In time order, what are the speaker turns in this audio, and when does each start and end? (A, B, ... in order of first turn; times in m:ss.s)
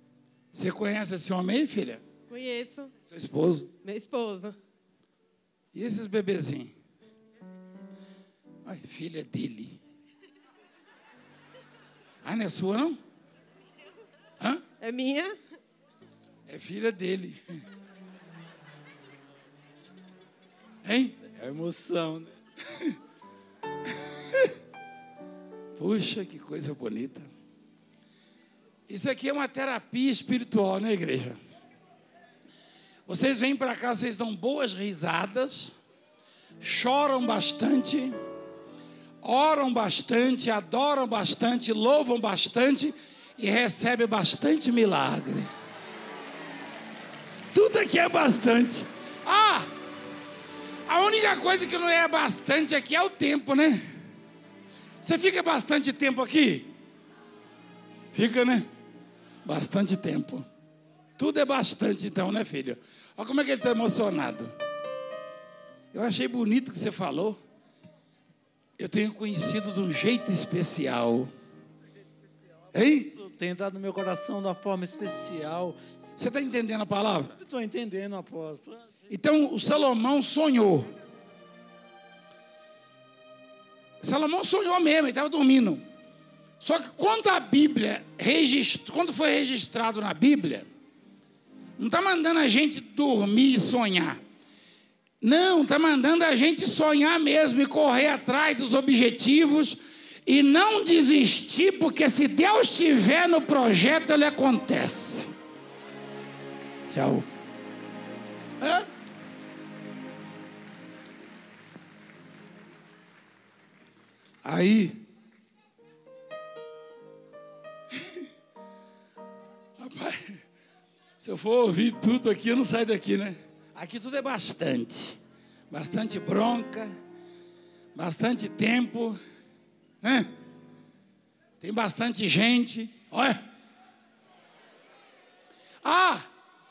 0:00.5-0:02.0 A
0:02.3-0:02.9 B
0:03.1-0:03.7 A
0:03.8-0:04.6 B
0:05.7-0:06.7 A
0:08.6-0:09.8 A
0:12.2-0:13.0 A
0:14.8-0:15.4 B
0:16.5-0:17.6 A
0:20.8-0:21.2 A
0:21.3-0:22.3 C
0:24.1-0:24.5 A
0:25.8-0:27.3 A
0:28.9-0:31.4 A
0:33.0-0:35.8 A
0:36.6-0:38.2 A
0:39.2-0:45.5 A
0:47.5-0:49.7 A
0:50.9-0:53.8 A
0:55.0-0:56.7 A
0:58.1-0:58.7 A
0:59.4-1:00.5 A
1:01.2-1:04.5 A
1:05.9-1:07.4 A
1:08.8-1:11.3 A
1:12.7-1:13.1 A
1:13.1-1:15.8 C
1:16.2-1:17.4 A
1:17.4-1:18.9 C
1:19.1-1:20.9 A
1:24.0-1:25.8 A
1:26.6-1:30.7 A
1:31.8-1:34.2 A
1:35.2-1:45.3 A
1:46.9-1:47.3 A
1:48.6-1:48.9 A
1:54.4-1:55.0 A
1:57.9-1:58.2 A
1:59.8-2:00.4 A
2:01.2-2:05.2 A
2:05.7-2:06.9 A
2:07.9-2:09.2 A
2:10.0-2:10.3 A
2:11.6-2:13.4 A
2:15.8-2:16.2 A